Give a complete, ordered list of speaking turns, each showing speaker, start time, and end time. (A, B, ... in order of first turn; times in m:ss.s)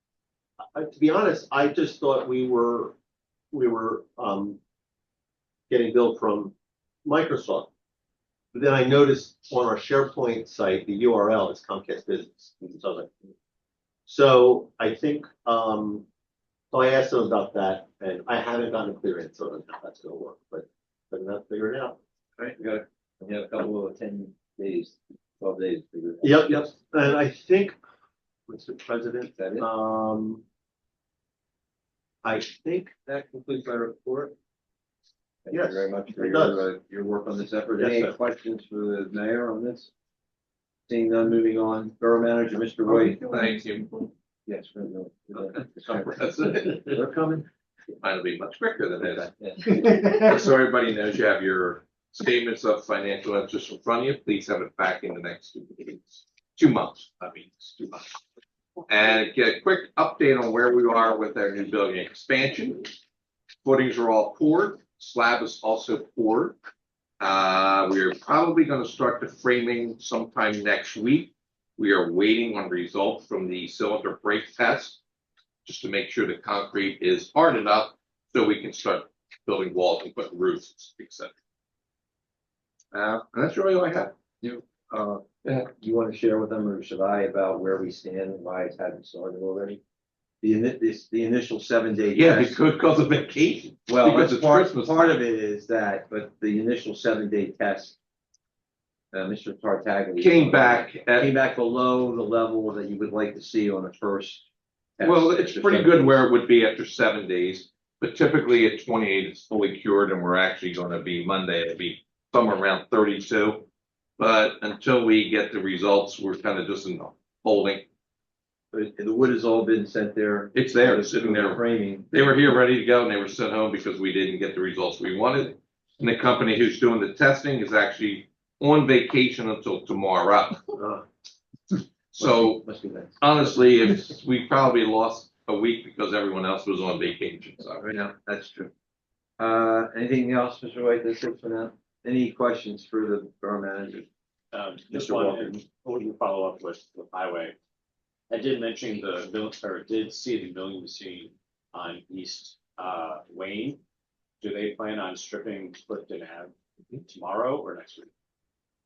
0:00.7-0:03.0 A
0:03.5-0:04.6 A
0:05.7-0:06.5 A
0:07.0-0:07.7 A
0:08.5-0:13.1 A
0:14.1-0:16.1 A
0:16.7-0:22.0 A
0:22.4-0:26.7 B
0:26.2-0:27.8 A
0:28.5-0:30.4 A
0:29.3-0:29.7 B
0:32.2-0:33.1 A
0:33.1-0:34.3 B
0:35.4-0:39.9 B
0:35.5-0:36.6 A
0:37.8-0:38.2 A
0:40.9-0:43.3 B
0:42.9-0:44.1 C
0:44.5-0:47.5 B
0:45.3-0:47.0 C
0:48.0-0:58.2 C
0:49.0-0:50.0 B
0:58.9-1:03.0 C
1:03.6-1:06.6 C
1:07.2-1:15.0 C
1:15.6-1:21.3 C
1:22.9-1:24.1 C
1:24.4-1:29.8 B
1:30.4-1:32.6 B
1:32.2-1:35.2 C
1:33.9-1:38.0 B
1:39.1-1:44.5 B
1:40.2-1:41.3 C
1:45.0-1:46.1 B
1:45.0-1:53.7 C
1:54.2-1:57.9 C
1:58.7-2:02.2 B
2:00.5-2:10.6 C
2:12.1-2:12.6 C
2:12.2-2:13.2 B
2:13.2-2:17.9 C
2:17.8-2:18.7 B
2:19.4-2:24.1 B
2:24.5-2:27.6 D
2:24.9-2:25.6 B
2:28.3-2:33.8 D
2:34.4-2:38.1 D